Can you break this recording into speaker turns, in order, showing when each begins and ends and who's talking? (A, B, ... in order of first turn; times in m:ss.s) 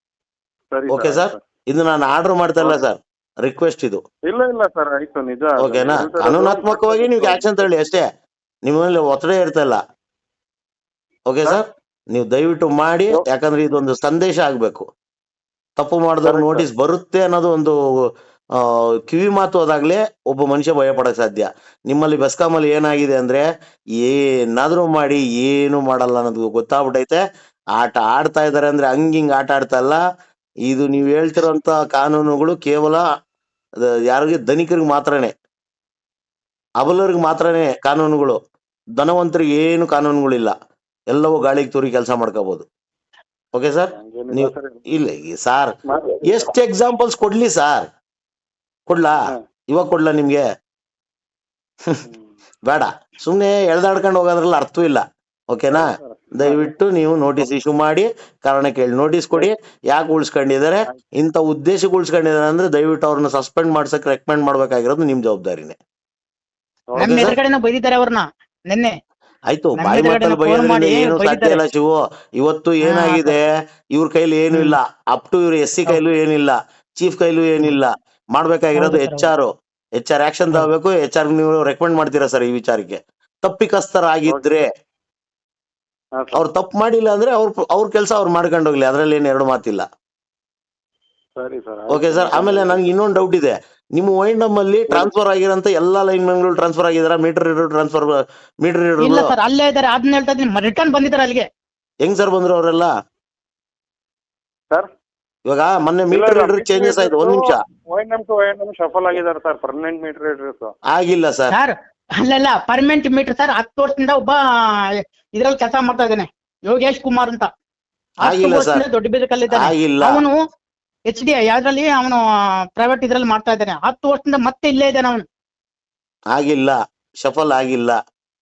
0:00.7-0:01.4 A
0:00.9-0:04.0 B
0:04.3-0:07.7 A
0:05.6-0:08.0 B
0:08.6-0:09.8 B
0:11.3-0:14.9 B
0:15.8-0:17.8 B
0:16.2-0:16.7 A
0:18.6-0:23.4 B
0:24.0-0:27.2 B
0:27.8-0:30.0 B
0:30.7-0:33.0 B
0:33.8-0:35.3 B
0:36.8-0:38.4 B
0:39.0-0:40.5 B
0:41.1-0:42.6 B
0:43.5-0:47.9 B
0:43.9-0:44.8 A
0:45.9-0:46.5 A
0:48.9-0:49.2 B
0:49.7-0:50.4 B
0:52.6-1:05.8 B
0:55.7-0:56.7 A
1:06.9-1:07.2 A
1:07.0-1:07.4 B
1:07.0-1:08.9 C
1:09.5-1:24.7 B
1:09.8-1:11.6 C
1:12.8-1:13.4 C
1:14.5-1:14.8 C
1:18.8-1:19.3 C
1:26.2-1:26.4 A
1:26.3-1:29.8 B
1:31.4-1:32.9 A
1:31.9-1:39.3 B
1:39.0-1:41.5 C
1:42.0-1:42.9 B
1:45.5-1:47.6 B
1:46.1-1:50.7 A
1:50.9-1:51.5 B
1:51.5-1:54.4 C
1:54.9-1:57.5 C
1:58.2-2:00.4 C
1:58.2-1:58.9 B
1:59.5-2:00.2 B
2:01.1-2:02.2 C
2:02.8-2:05.2 C
2:06.3-2:08.0 B